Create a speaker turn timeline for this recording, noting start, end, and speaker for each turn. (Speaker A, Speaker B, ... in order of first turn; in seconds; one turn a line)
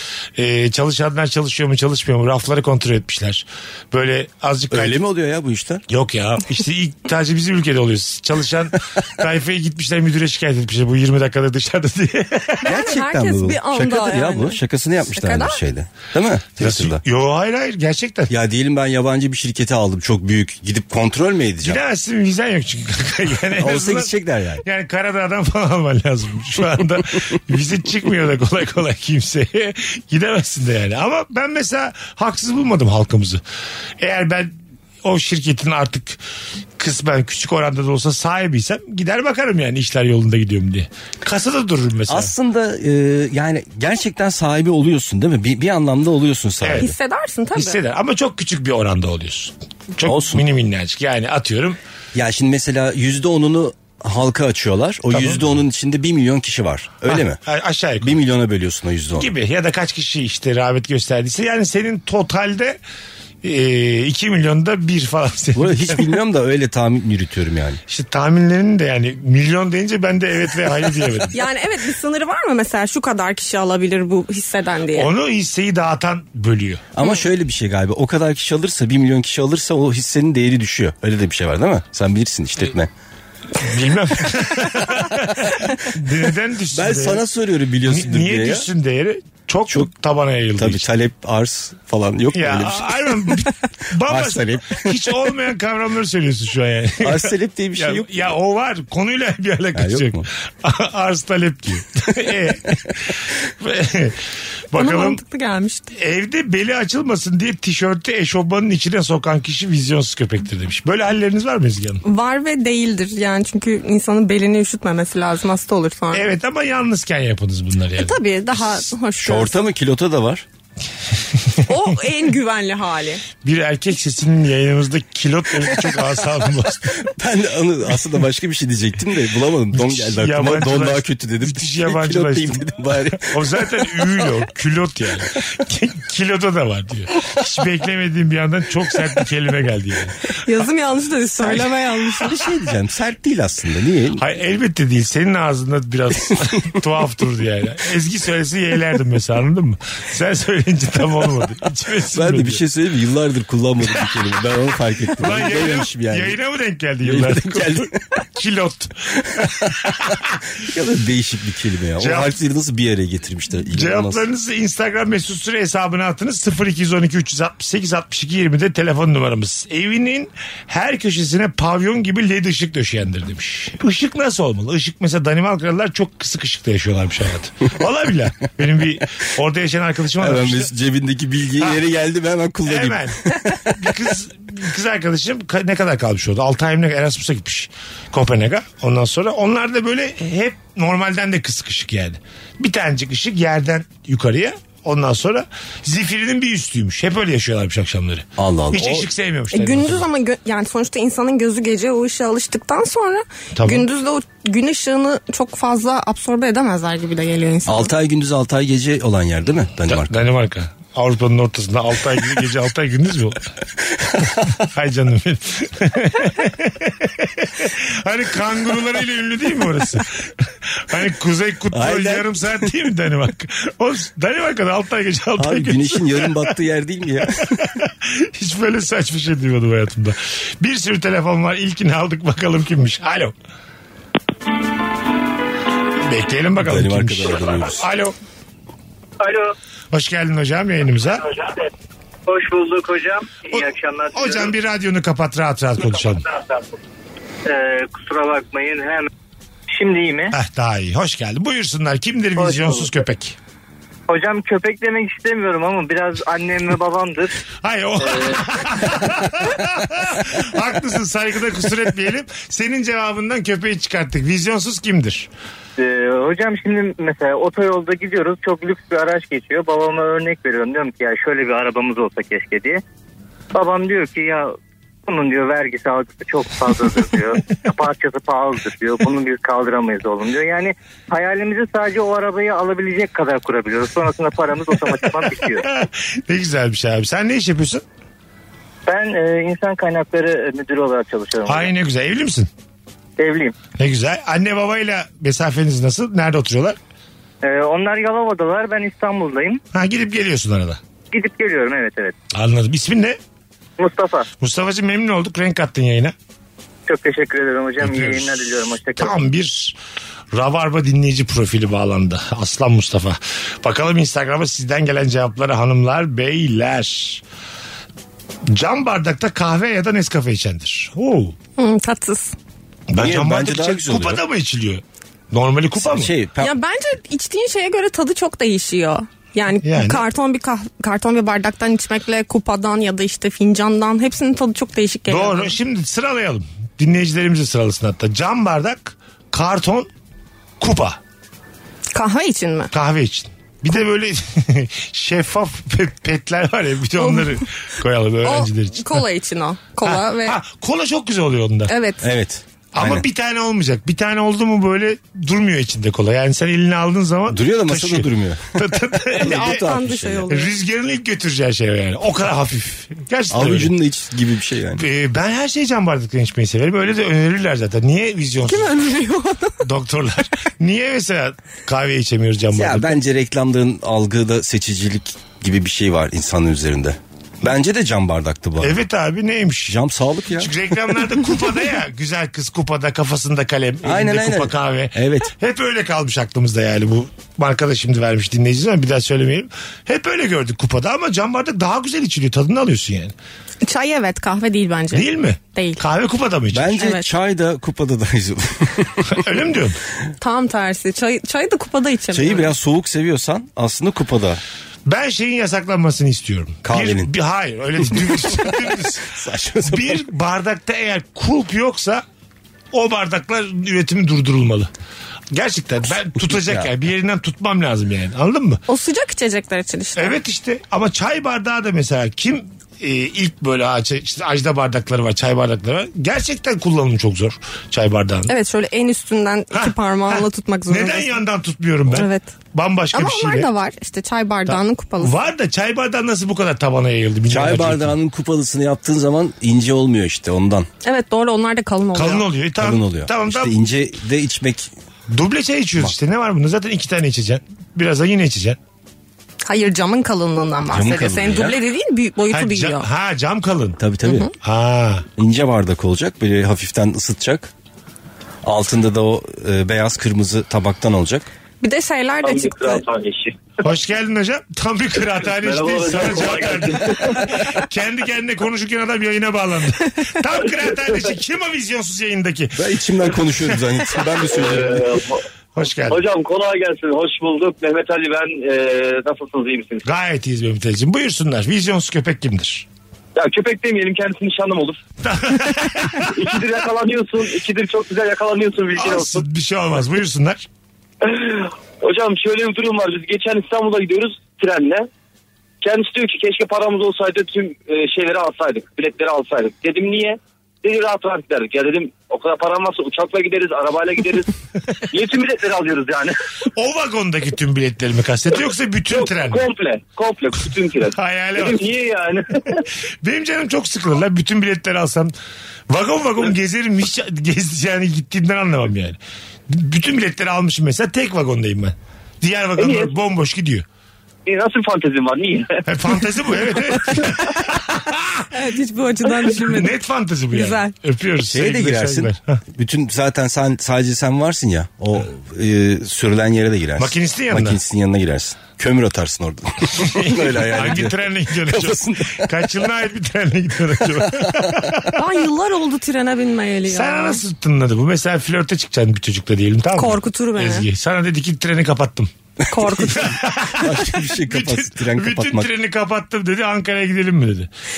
Speaker A: 0.4-5.0
Speaker B: 4.7-5.8
Speaker A: 5.9-12.8
Speaker C: 12.7-15.6
Speaker B: 12.7-17.0
Speaker A: 16.6-18.3
Speaker B: 18.3-21.8
Speaker A: 21.6-24.1
Speaker B: 23.6-24.6
Speaker A: 24.6-33.4
Speaker A: 34.0-34.5
Speaker A: 35.0-36.2
Speaker A: 36.8-42.3
Speaker B: 42.1-46.9
Speaker A: 46.6-46.9
Speaker C: 46.8-47.8
Speaker A: 47.5-51.8
Speaker B: 50.0-50.5
Speaker B: 52.1-57.4
Speaker A: 55.1-55.4
Speaker A: 57.1-58.2
Speaker B: 58.0-59.3
Speaker A: 59.2-62.8
Speaker A: 63.4-66.1
Speaker B: 65.5-67.8
Speaker A: 67.9-71.4
Speaker C: 71.3-75.1
Speaker A: 74.9-76.9
Speaker B: 77.0-82.9
Speaker A: 83.6-87.2
Speaker B: 86.7-88.7
Speaker A: 87.8-90.8
Speaker B: 90.6-93.4
Speaker A: 92.3-104.2
Speaker B: 94.0-95.1
Speaker B: 97.0-98.4
Speaker B: 99.7-100.3
Speaker A: 104.7-105.2
Speaker C: 104.8-105.9
Speaker A: 105.9-112.0
Speaker C: 112.0-116.3
Speaker A: 116.1-118.2
Speaker C: 118.0-119.6
Speaker B: 119.2-120.5
Speaker C: 121.7-123.2
Speaker A: 123.4-127.1
Speaker B: 127.0-134.3
Speaker A: 129.7-140.3
Speaker C: 140.4-142.4
Speaker B: 141.4-144.2
Speaker A: 144.2-152.6
Speaker B: 152.1-156.4
Speaker A: 155.2-160.4
Speaker B: 157.0-158.0
Speaker B: 160.6-164.2
Speaker A: 162.0-162.3
Speaker A: 163.7-180.7
Speaker B: 180.2-184.1
Speaker A: 182.7-200.0
Speaker B: 198.4-199.1
Speaker C: 199.5-207.9
Speaker A: 203.6-203.9
Speaker B: 207.7-210.2
Speaker A: 209.9-213.5
Speaker B: 214.2-214.5
Speaker A: 214.6-220.1
Speaker A: 220.7-226.5
Speaker B: 221.7-222.7
Speaker B: 225.4-227.7
Speaker A: 227.4-233.3
Speaker A: 236.1-238.2
Speaker B: 236.6-237.9
Speaker D: 239.2-239.6
Speaker A: 239.9-241.2
Speaker D: 241.4-241.6
Speaker D: 242.3-244.5
Speaker A: 244.1-246.2
Speaker D: 247.4-249.1
Speaker D: 249.7-250.3
Speaker A: 250.3-253.4
Speaker D: 252.4-252.9
Speaker D: 254.1-257.4
Speaker A: 257.6-265.3
Speaker D: 258.0-258.4
Speaker D: 265.8-272.8
Speaker D: 273.5-274.5
Speaker D: 275.1-285.7
Speaker A: 285.7-287.8
Speaker D: 288.9-291.7
Speaker A: 291.5-292.5
Speaker D: 293.2-293.5
Speaker A: 293.8-296.8
Speaker D: 297.4-299.6
Speaker A: 299.7-300.8
Speaker D: 301.1-302.1
Speaker A: 302.3-303.2
Speaker D: 303.8-304.3
Speaker A: 304.4-306.1
Speaker D: 306.9-309.2
Speaker A: 307.8-308.5
Speaker A: 309.0-309.8
Speaker A: 310.3-317.2
Speaker A: 318.5-321.4
Speaker C: 321.6-322.3
Speaker A: 322.9-326.1
Speaker B: 323.0-324.2
Speaker B: 325.8-326.5
Speaker C: 326.4-335.6
Speaker A: 329.6-330.0
Speaker A: 335.1-339.9
Speaker A: 340.6-341.0
Speaker C: 341.9-342.7
Speaker A: 342.7-349.0
Speaker C: 347.0-347.3
Speaker C: 348.2-350.4
Speaker A: 349.8-351.7
Speaker C: 351.7-352.0
Speaker B: 352.0-353.1
Speaker A: 352.7-359.7
Speaker B: 357.3-360.3
Speaker C: 359.3-360.5
Speaker A: 360.3-363.7
Speaker B: 363.3-364.8
Speaker A: 364.8-368.8
Speaker C: 368.5-369.6
Speaker A: 369.6-372.9
Speaker B: 372.5-378.8
Speaker A: 378.6-379.8
Speaker B: 379.7-380.5
Speaker A: 380.4-393.1
Speaker B: 383.8-385.3
Speaker C: 393.6-395.8
Speaker A: 394.9-396.8
Speaker B: 396.5-399.2
Speaker C: 396.8-397.1
Speaker A: 399.1-399.8
Speaker C: 400.2-402.5
Speaker B: 402.1-404.4
Speaker A: 404.9-409.0
Speaker B: 406.6-407.1
Speaker B: 407.8-410.1
Speaker A: 409.7-412.0
Speaker A: 412.7-414.7
Speaker A: 415.3-418.6
Speaker B: 416.2-416.7
Speaker C: 418.7-420.2
Speaker A: 420.0-428.3
Speaker C: 428.3-431.2
Speaker A: 429.5-433.5
Speaker C: 431.9-432.3
Speaker C: 432.9-435.1
Speaker A: 434.5-437.9
Speaker B: 437.3-440.7
Speaker C: 440.8-442.3
Speaker A: 441.9-443.5
Speaker B: 442.6-444.7
Speaker A: 445.1-448.6
Speaker C: 449.4-452.9
Speaker B: 450.7-451.6
Speaker A: 452.3-453.8
Speaker B: 453.8-454.3
Speaker C: 454.0-454.3
Speaker A: 454.4-455.1
Speaker B: 455.2-457.5
Speaker B: 458.4-461.3
Speaker C: 461.6-462.8
Speaker E: 462.2-463.7
Speaker A: 463.6-473.8
Speaker E: 465.2-467.6
Speaker B: 472.6-475.1
Speaker E: 474.3-475.2
Speaker A: 475.6-476.0
Speaker E: 475.9-479.8
Speaker A: 479.9-482.7
Speaker E: 483.1-484.8
Speaker A: 485.0-486.2
Speaker E: 486.1-489.2
Speaker A: 488.8-490.4
Speaker E: 491.0-494.9
Speaker E: 495.6-504.3
Speaker E: 504.9-506.2
Speaker A: 506.6-509.4
Speaker E: 508.9-512.6
Speaker A: 510.9-511.6
Speaker A: 513.0-515.1
Speaker A: 515.7-519.0
Speaker A: 519.5-523.6
Speaker E: 522.6-523.0
Speaker E: 524.3-525.6
Speaker A: 525.7-528.3
Speaker C: 528.3-529.8
Speaker A: 529.4-532.4
Speaker C: 530.3-530.7
Speaker B: 531.2-542.5
Speaker A: 536.8-537.6
Speaker A: 539.8-545.0
Speaker B: 543.9-544.4
Speaker C: 545.0-547.2
Speaker A: 546.7-552.1
Speaker C: 549.8-550.7
Speaker C: 552.5-553.1
Speaker B: 552.5-555.5
Speaker A: 552.9-557.5